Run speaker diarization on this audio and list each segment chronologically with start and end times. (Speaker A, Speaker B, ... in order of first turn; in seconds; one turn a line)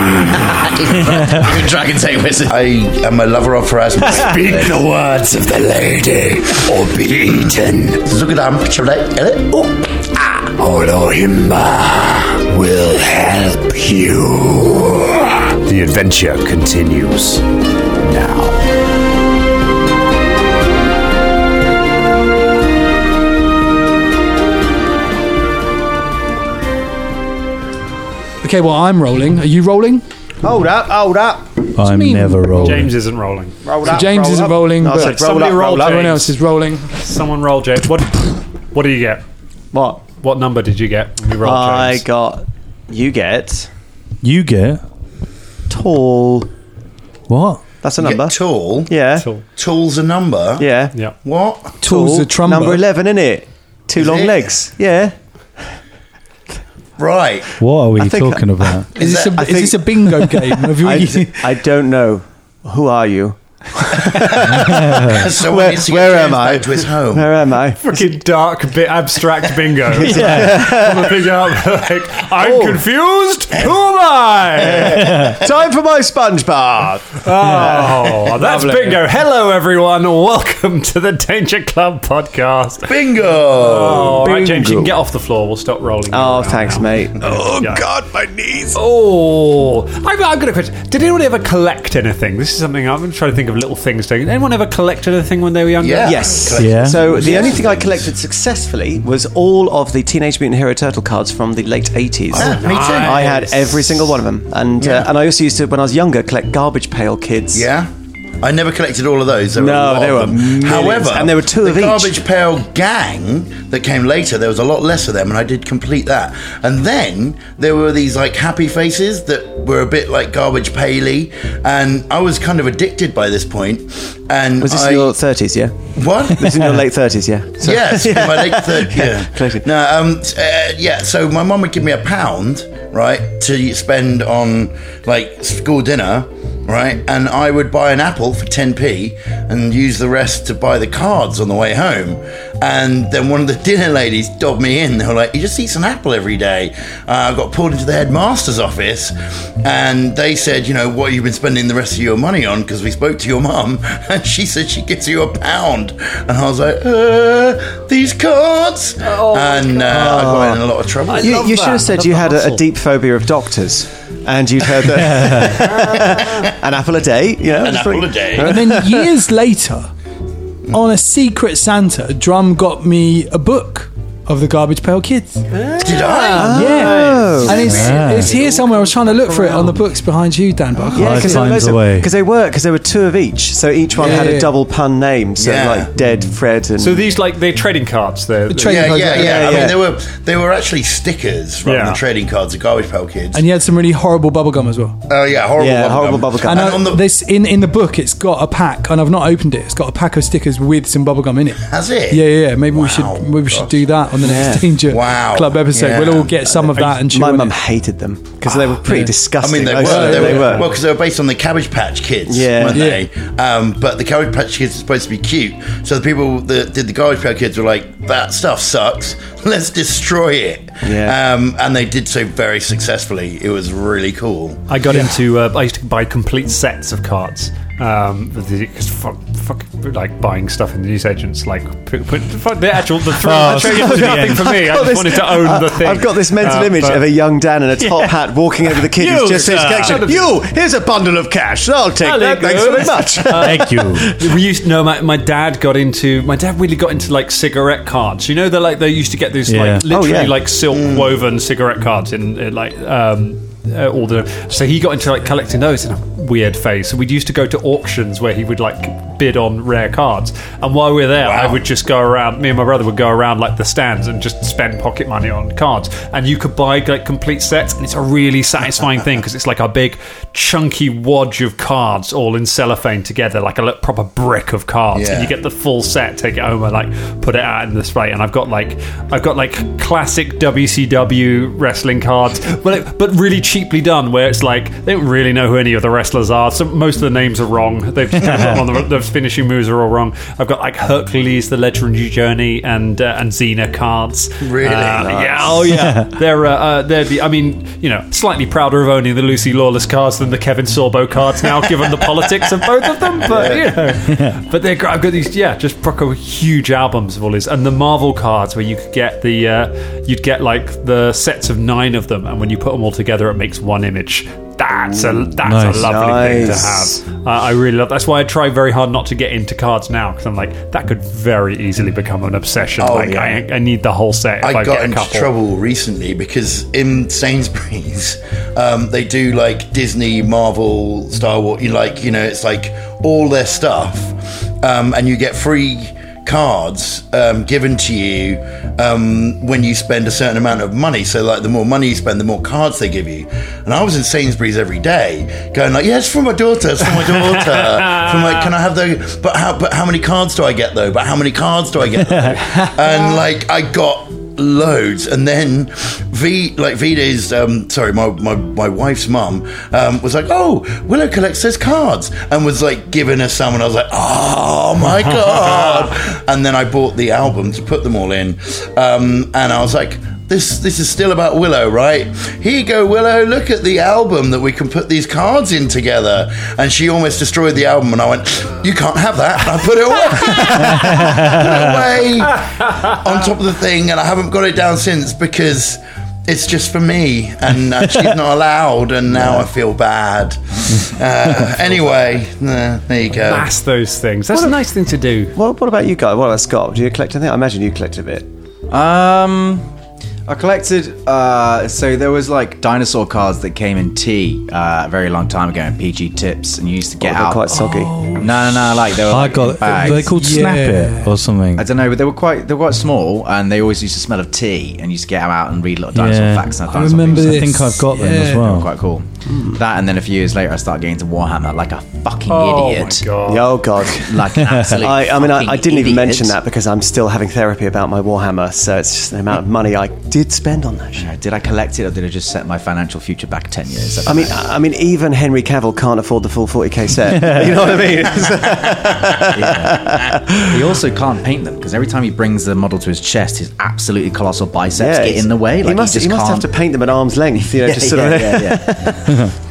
Speaker A: 0.5-4.8
Speaker B: 4.2-8.1
Speaker A: 8.1-9.8
Speaker B: 10.4-17.4
Speaker B: 18.0-18.6
Speaker C: 28.4-30.0
Speaker D: 30.4-31.5
Speaker E: 31.8-32.9
Speaker C: 31.8-32.9
Speaker B: 32.6-34.0
Speaker D: 33.6-36.1
Speaker C: 33.8-35.2
Speaker B: 34.9-36.4
Speaker C: 35.8-36.9
Speaker B: 36.9-39.2
Speaker D: 39.7-40.0
Speaker B: 40.1-42.0
Speaker D: 41.4-43.7
Speaker E: 44.2-44.8
Speaker D: 45.7-46.5
Speaker E: 47.3-47.6
Speaker D: 47.8-49.2
Speaker A: 48.0-48.9
Speaker B: 49.2-49.4
Speaker A: 49.5-50.7
Speaker D: 50.6-50.9
Speaker A: 51.2-51.8
Speaker C: 51.8-52.8
Speaker D: 51.8-55.1
Speaker A: 54.0-54.4
Speaker A: 57.0-57.5
Speaker E: 57.6-58.9
Speaker D: 58.0-67.9
Speaker C: 59.0-61.6
Speaker A: 59.0-59.6
Speaker A: 64.1-67.3
Speaker E: 64.7-65.1
Speaker B: 67.8-75.0
Speaker D: 70.0-71.2
Speaker E: 70.0-70.7
Speaker D: 72.4-72.8
Speaker D: 74.7-79.0
Speaker A: 74.8-75.3
Speaker B: 77.2-82.9
Speaker A: 82.9-84.2
Speaker B: 83.5-87.8
Speaker D: 84.1-84.9
Speaker D: 86.1-88.8
Speaker B: 88.7-96.5
Speaker A: 95.8-98.1
Speaker D: 96.0-107.7
Speaker E: 96.6-97.0
Speaker B: 97.2-97.5
Speaker B: 102.3-104.0
Speaker A: 102.3-103.3
Speaker A: 104.8-105.1
Speaker A: 107.5-107.9
Speaker A: 108.4-125.1
Speaker D: 109.6-112.2
Speaker D: 124.6-125.7
Speaker A: 126.0-126.7
Speaker D: 126.2-129.7
Speaker A: 127.6-161.4
Speaker B: 159.0-160.2
Speaker D: 159.9-160.6
Speaker B: 161.1-162.6
Speaker D: 161.1-169.2
Speaker A: 167.5-168.6
Speaker C: 168.4-169.9
Speaker C: 170.7-175.4
Speaker B: 175.5-179.8
Speaker A: 175.8-176.8
Speaker D: 176.3-177.9
Speaker C: 176.4-181.4
Speaker E: 177.6-178.3
Speaker D: 180.9-187.1
Speaker E: 181.0-182.1
Speaker C: 184.0-184.5
Speaker A: 185.4-185.9
Speaker B: 186.8-189.4
Speaker C: 188.5-189.7
Speaker A: 188.6-193.4
Speaker D: 189.1-189.8
Speaker B: 191.6-192.0
Speaker C: 193.3-195.0
Speaker A: 195.1-197.0
Speaker D: 195.6-196.8
Speaker C: 196.4-207.5
Speaker A: 201.7-203.8
Speaker D: 204.2-204.7
Speaker A: 204.9-206.8
Speaker D: 206.8-210.7
Speaker C: 208.8-209.1
Speaker A: 209.4-224.6
Speaker C: 209.8-210.7
Speaker D: 212.3-212.8
Speaker C: 212.7-213.0
Speaker D: 220.8-221.2
Speaker B: 224.7-237.1
Speaker E: 233.2-234.4
Speaker D: 233.3-244.3
Speaker E: 239.0-240.1
Speaker B: 239.1-240.3
Speaker B: 242.0-325.3
Speaker E: 243.3-244.1
Speaker E: 249.5-249.8
Speaker D: 249.9-250.3
Speaker A: 250.7-251.1
Speaker A: 261.2-261.6
Speaker A: 274.9-275.3
Speaker A: 294.4-295.2
Speaker D: 294.9-295.9
Speaker A: 303.2-303.8
Speaker E: 304.1-304.4
Speaker E: 315.4-315.9
Speaker D: 315.7-316.9
Speaker A: 322.8-323.4
Speaker A: 324.4-393.5
Speaker B: 347.1-348.5
Speaker E: 380.6-381.7
Speaker D: 389.1-389.5
Speaker B: 393.1-395.3
Speaker D: 395.3-398.3
Speaker F: 398.7-399.7
Speaker F: 400.3-407.5
Speaker D: 407.0-408.1
Speaker C: 407.5-408.2
Speaker F: 408.1-410.3
Speaker E: 409.1-411.6
Speaker C: 409.9-411.1
Speaker F: 411.6-423.1
Speaker E: 415.9-416.5
Speaker C: 416.7-418.5
Speaker E: 417.1-418.7
Speaker D: 419.3-419.6
Speaker B: 422.3-423.6
Speaker D: 423.2-424.1
Speaker F: 423.9-426.4
Speaker E: 424.4-424.8
Speaker D: 424.8-431.1
Speaker F: 430.9-434.4
Speaker D: 434.1-440.5
Speaker F: 439.1-446.5
Speaker D: 444.8-449.2
Speaker F: 447.6-448.9